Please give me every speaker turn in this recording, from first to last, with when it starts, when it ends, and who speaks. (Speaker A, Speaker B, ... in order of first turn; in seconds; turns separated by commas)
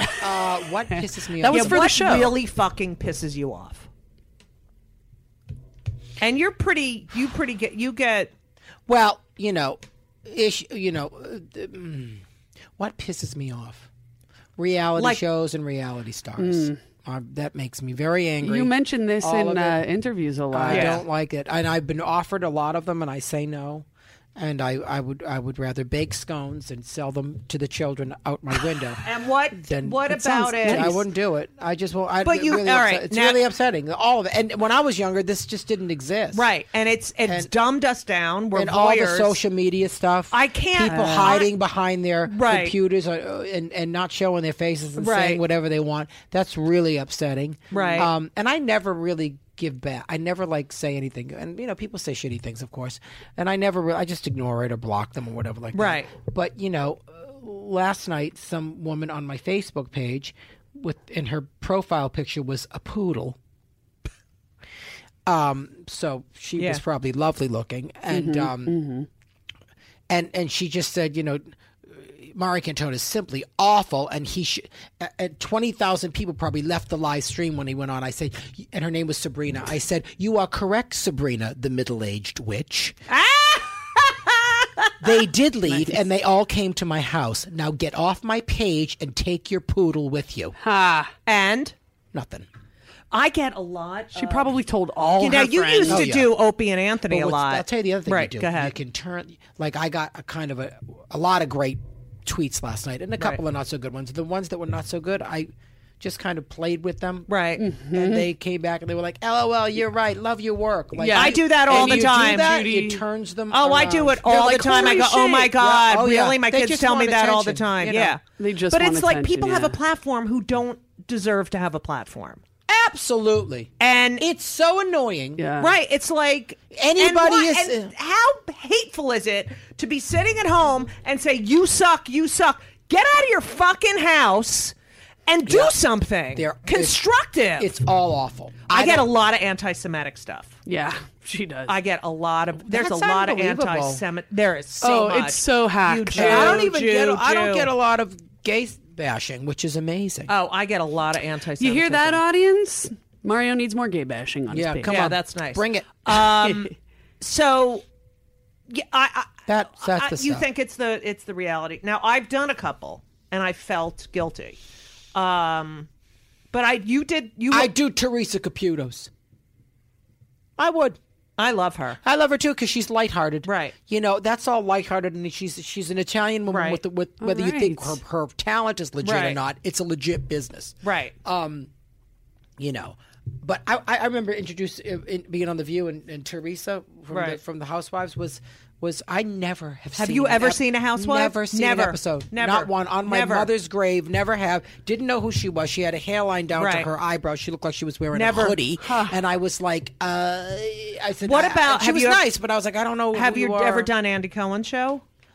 Speaker A: 0.2-2.0, Speaker B: 1.4-2.4, Speaker C: 1.5-3.9, Speaker C: 6.2-8.3, Speaker A: 8.9-12.2, Speaker A: 12.8-13.9, Speaker A: 14.6-19.8, Speaker C: 15.0-15.2, Speaker B: 16.4-16.8, Speaker B: 18.4-21.0, Speaker A: 20.5-29.0, Speaker C: 20.7-21.0, Speaker C: 29.0-31.0, Speaker A: 29.6-36.5, Speaker B: 30.6-31.0, Speaker C: 32.2-33.4, Speaker C: 36.3-39.4, Speaker A: 37.2-37.5, Speaker A: 38.5-63.4, Speaker C: 40.3-41.5, Speaker B: 40.9-41.4, Speaker C: 42.3-42.8, Speaker C: 45.0-45.4, Speaker C: 47.7-48.1, Speaker B: 47.7-48.0, Speaker C: 55.7-56.1, Speaker A: 65.2-68.8, Speaker C: 66.6-66.8, Speaker B: 68.1-69.1, Speaker A: 70.1-83.0, Speaker C: 83.1-85.1, Speaker A: 85.0-90.5, Speaker B: 90.6-91.1, Speaker C: 91.2-91.7, Speaker A: 92.1-92.5, Speaker C: 93.1-94.5, Speaker B: 94.1-96.1, Speaker C: 95.2-98.8, Speaker A: 95.8-96.4, Speaker A: 97.1-107.3, Speaker C: 107.3-107.6, Speaker B: 107.6-108.2, Speaker A: 107.9-117.8, Speaker B: 111.0-113.0, Speaker C: 111.1-112.6, Speaker C: 113.5-122.4, Speaker B: 114.7-115.0, Speaker B: 117.8-119.8, Speaker A: 122.7-125.4, Speaker C: 123.8-124.2, Speaker B: 125.4-125.7, Speaker C: 125.6-134.7, Speaker A: 126.7-127.9, Speaker C: 135.3-137.7, Speaker A: 135.4-135.8, Speaker A: 136.3-137.0, Speaker A: 137.6-139.1, Speaker C: 138.7-140.5, Speaker B: 140.7-141.7, Speaker C: 141.7-147.7, Speaker A: 142.6-144.0, Speaker B: 144.8-146.7, Speaker A: 146.1-150.3, Speaker C: 150.3-152.2, Speaker B: 151.6-155.0, Speaker A: 154.5-156.2, Speaker C: 154.8-157.8, Speaker C: 158.7-164.6, Speaker A: 159.5-160.4, Speaker C: 165.1-165.9, Speaker C: 166.5-167.7, Speaker A: 167.5-169.1, Speaker A: 170.6-171.0, Speaker C: 171.4-172.0, Speaker A: 172.0-181.7, Speaker C: 173.4-173.7, Speaker C: 176.5-176.8, Speaker B: 177.2-178.0, Speaker C: 179.0-179.4, Speaker C: 180.8-181.1, Speaker A: 182.6-203.9, Speaker C: 187.1-187.4, Speaker C: 190.0-193.5, Speaker C: 196.5-196.9, Speaker C: 198.1-198.6, Speaker B: 198.8-199.2, Speaker C: 201.2-202.2, Speaker C: 203.1-205.0